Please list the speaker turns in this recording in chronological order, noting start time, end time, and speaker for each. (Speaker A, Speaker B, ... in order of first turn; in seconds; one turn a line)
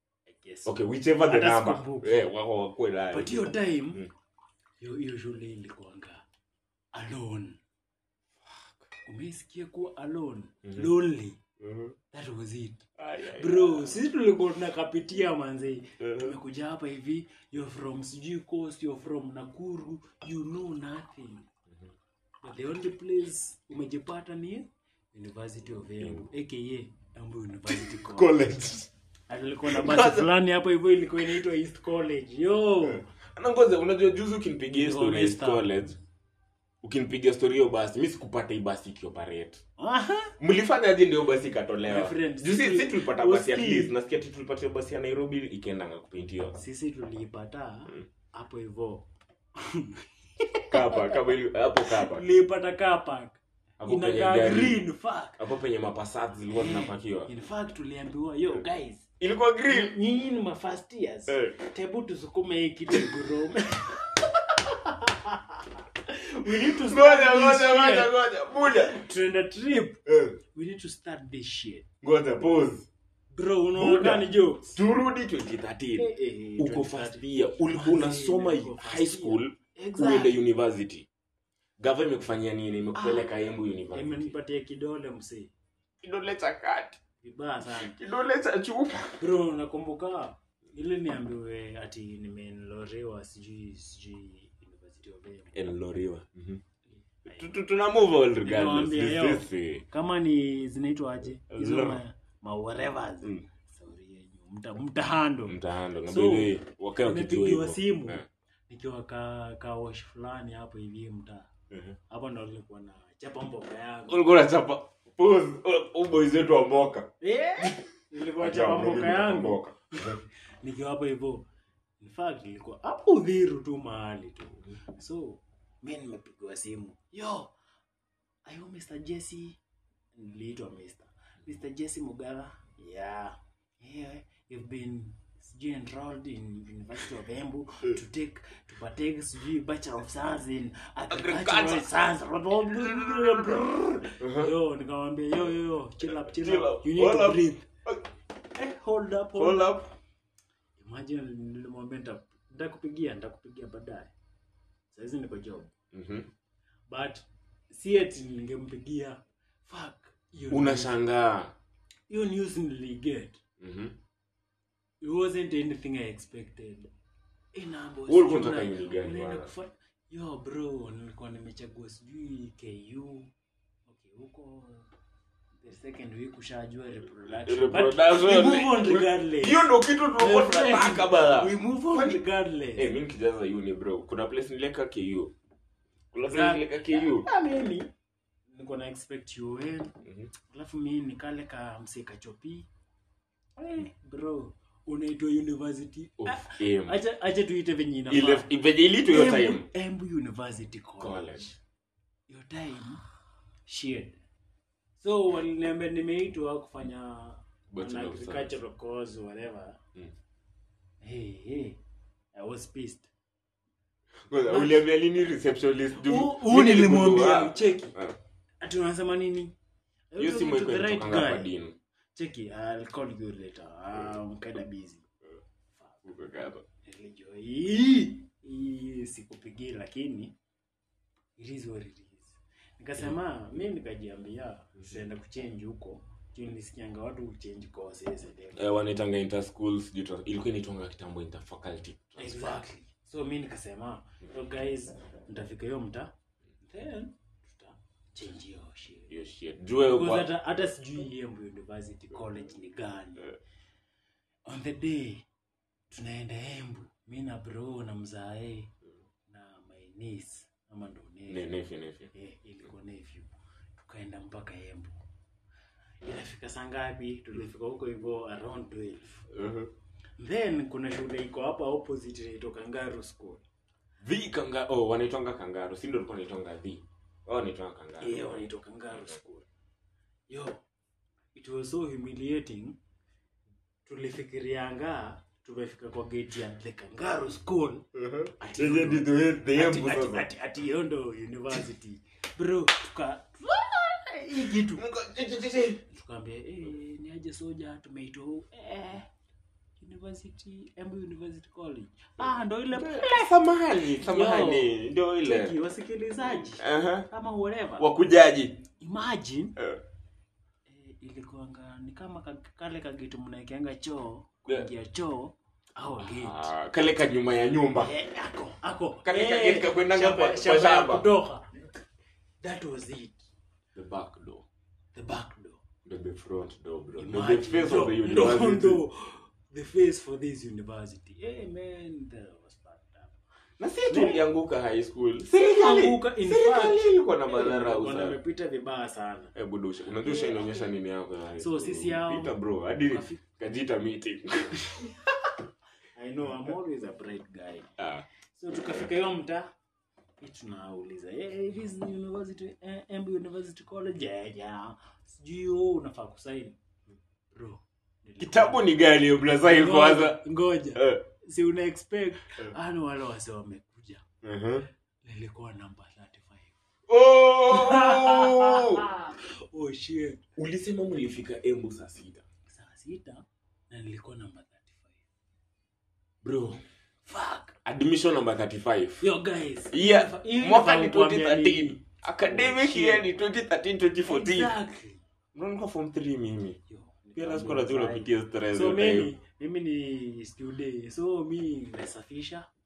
Speaker A: 0.3-2.3
Speaker B: 0.7-4.1
Speaker A: 3.1-4.1
Speaker A: 4.8-6.2
Speaker A: 6.9-7.6
Speaker B: 8.5-8.8
Speaker A: 9.1-11.4
Speaker B: 11.6-11.9
Speaker A: 12.1-21.5
Speaker B: 13.0-14.0
Speaker B: 16.0-16.4
Speaker A: 22.4-28.4
Speaker B: 26.0-26.3
Speaker B: 27.7-28.9
Speaker A: 29.3-33.0
Speaker B: 29.6-30.3
Speaker B: 33.4-36.0
Speaker A: 34.8-35.7
Speaker B: 36.8-39.6
Speaker A: 39.8-40.4
Speaker B: 40.4-46.6
Speaker A: 41.9-43.9
Speaker A: 46.5-51.2
Speaker B: 50.7-52.2
Speaker A: 51.9-55.4
Speaker B: 53.8-54.8
Speaker B: 55.4-57.3
Speaker A: 56.5-59.1
Speaker B: 59.2-60.0
Speaker A: 59.7-71.8
Speaker B: 66.5-69.0
Speaker B: 70.1-70.4
Speaker B: 72.0-72.9
Speaker A: 73.3-74.8
Speaker B: 73.8-81.1
Speaker A: 76.0-80.4
Speaker B: 81.8-84.3
Speaker A: 83.0-83.3
Speaker A: 83.9-85.5
Speaker B: 86.0-87.0
Speaker A: 87.2-88.0
Speaker B: 87.7-89.2
Speaker A: 89.2-95.6
Speaker B: 95.5-96.6
Speaker A: 97.1-97.5
Speaker B: 97.3-99.8
Speaker A: 98.4-106.5
Speaker B: 101.5-102.0
Speaker B: 105.5-108.3
Speaker A: 107.0-111.5
Speaker A: 112.1-114.3
Speaker B: 114.1-117.8
Speaker A: 117.2-121.5
Speaker B: 118.4-120.2
Speaker A: 122.0-127.5
Speaker A: 128.5-129.6
Speaker A: 130.2-147.7
Speaker B: 141.1-141.9
Speaker B: 142.7-143.6
Speaker B: 144.2-144.5
Speaker B: 146.3-148.0
Speaker A: 148.5-149.8
Speaker B: 149.4-149.9
Speaker A: 150.8-154.1
Speaker A: 154.9-155.7
Speaker B: 155.9-156.3
Speaker A: 156.9-160.9
Speaker B: 160.5-161.6
Speaker A: 162.1-163.4
Speaker B: 163.6-164.0
Speaker A: 165.0-166.9
Speaker A: 167.5-173.3
Speaker B: 168.1-169.5
Speaker A: 173.9-174.9
Speaker A: 175.6-182.9
Speaker B: 177.3-182.2
Speaker B: 182.8-185.3
Speaker B: 186.1-187.3
Speaker A: 186.2-187.9
Speaker A: 188.5-190.0
Speaker B: 190.0-190.3
Speaker A: 190.5-192.7
Speaker A: 193.6-198.5
Speaker B: 196.2-197.0
Speaker B: 198.1-199.7
Speaker A: 199.1-201.4
Speaker B: 201.0-201.6
Speaker A: 202.3-203.0
Speaker A: 203.7-204.2
Speaker A: 205.0-209.8
Speaker B: 207.7-208.5
Speaker A: 211.0-211.8
Speaker A: 212.3-213.1
Speaker B: 214.2-218.2
Speaker A: 214.5-214.8
Speaker A: 215.9-218.0
Speaker A: 218.6-219.5
Speaker A: 220.1-221.5
Speaker B: 220.2-221.8
Speaker A: 222.2-225.1
Speaker A: 225.8-226.1
Speaker B: 226.1-226.7
Speaker A: 226.8-230.3
Speaker A: 231.4-238.7
Speaker B: 238.5-242.6
Speaker A: 242.2-249.1
Speaker B: 249.1-250.3
Speaker A: 249.8-253.4
Speaker A: 254.5-255.2
Speaker A: 255.9-258.7
Speaker A: 259.3-261.5
Speaker B: 261.3-262.1
Speaker A: 262.1-265.0
Speaker A: 266.0-269.3
Speaker B: 269.3-269.7
Speaker A: 270.2-273.4
Speaker B: 274.0-278.5
Speaker A: 278.0-279.5
Speaker A: 280.3-280.6
Speaker A: 281.4-282.8
Speaker A: 283.9-294.9
Speaker B: 288.0-290.3
Speaker B: 294.7-295.8
Speaker A: 295.9-299.1
Speaker A: 299.8-303.4
Speaker B: 302.7-305.5
Speaker A: 303.9-307.9
Speaker B: 306.4-307.1
Speaker B: 307.8-308.6
Speaker A: 308.8-309.6
Speaker A: 310.7-316.5
Speaker B: 316.0-317.9
Speaker A: 317.8-321.6
Speaker B: 319.0-321.1
Speaker A: 322.4-323.3
Speaker B: 323.8-324.5
Speaker A: 324.9-325.6
Speaker B: 325.9-328.8
Speaker A: 327.0-333.2
Speaker B: 333.6-338.2
Speaker A: 333.9-334.2
Speaker A: 335.3-339.4
Speaker B: 339.4-345.0
Speaker A: 340.0-340.7
Speaker A: 341.4-342.4
Speaker A: 342.9-343.2
Speaker A: 345.9-347.8
Speaker B: 347.8-348.1
Speaker A: 348.3-349.5
Speaker A: 350.2-356.6
Speaker A: 357.3-358.6
Speaker B: 358.2-360.2
Speaker A: 359.4-364.1
Speaker B: 360.8-361.0
Speaker B: 364.2-364.7
Speaker A: 365.0-366.5
Speaker B: 366.9-368.9
Speaker A: 367.4-370.2
Speaker B: 370.4-372.2
Speaker A: 372.5-375.0
Speaker B: 376.2-376.6
Speaker A: 377.1-377.6
Speaker B: 377.6-379.0
Speaker A: 379.0-383.1
Speaker B: 379.7-384.5
Speaker A: 384.1-385.0
Speaker B: 385.3-386.6
Speaker A: 386.7-392.5
Speaker B: 387.2-389.1